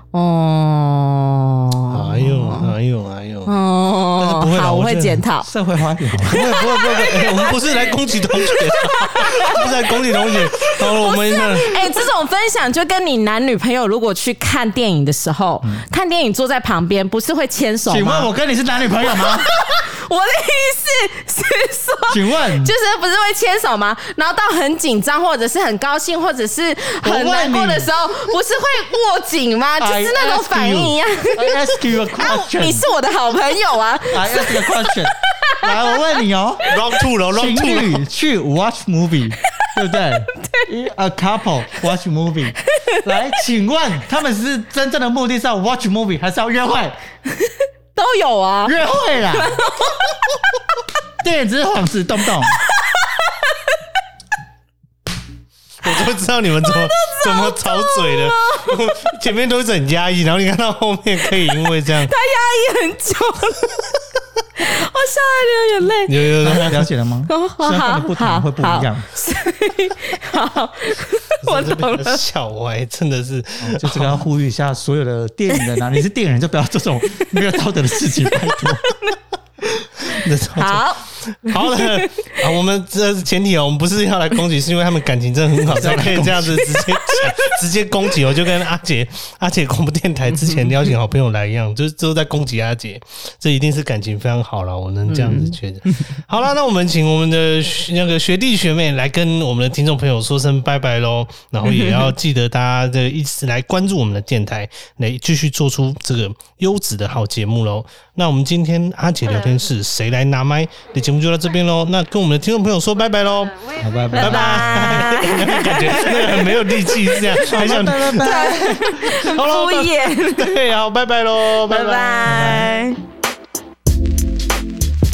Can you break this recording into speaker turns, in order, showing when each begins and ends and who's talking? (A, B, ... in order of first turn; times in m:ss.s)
0:00.1-0:02.7 A
0:01.9-0:03.6 B
0:03.5-0:05.5 A
0:04.2-0:05.2 B
0:05.4-0:06.4 C
0:06.2-0:11.8 B
0:06.3-0:18.3 A
0:17.9-0:19.5 C
0:19.1-0:34.9 A
0:22.1-0:22.7 C
0:27.0-0:27.9 C
0:29.8-0:32.9 C
0:34.1-0:36.7 C
0:35.5-0:35.9 A
0:36.7-0:38.0 B
0:37.3-0:47.0 C
0:42.7-0:43.0 A
0:47.4-0:48.8 A
0:48.6-0:49.6 C
0:49.4-0:50.1 A
0:51.2-0:52.6 C
0:52.7-0:53.8 A
0:55.8-1:02.1 B
0:56.6-0:58.8 A
1:02.0-1:03.8 A
1:04.6-1:06.3 A
1:06.1-1:06.9 B
1:06.4-1:09.1 C
1:07.3-1:12.2 A
1:11.4-1:14.2 B
1:13.6-1:18.9 C
1:20.0-1:58.3 B
1:20.5-1:22.2 A
1:25.6-1:26.7 C
1:26.8-1:27.3 A
1:35.1-1:35.6 A
1:41.7-1:42.1 A
1:53.8-1:54.6 C
1:54.1-2:00.5 A
1:57.5-1:59.0 C
1:59.0-2:02.5 B
2:01.7-2:03.0 A
2:02.3-2:02.7 C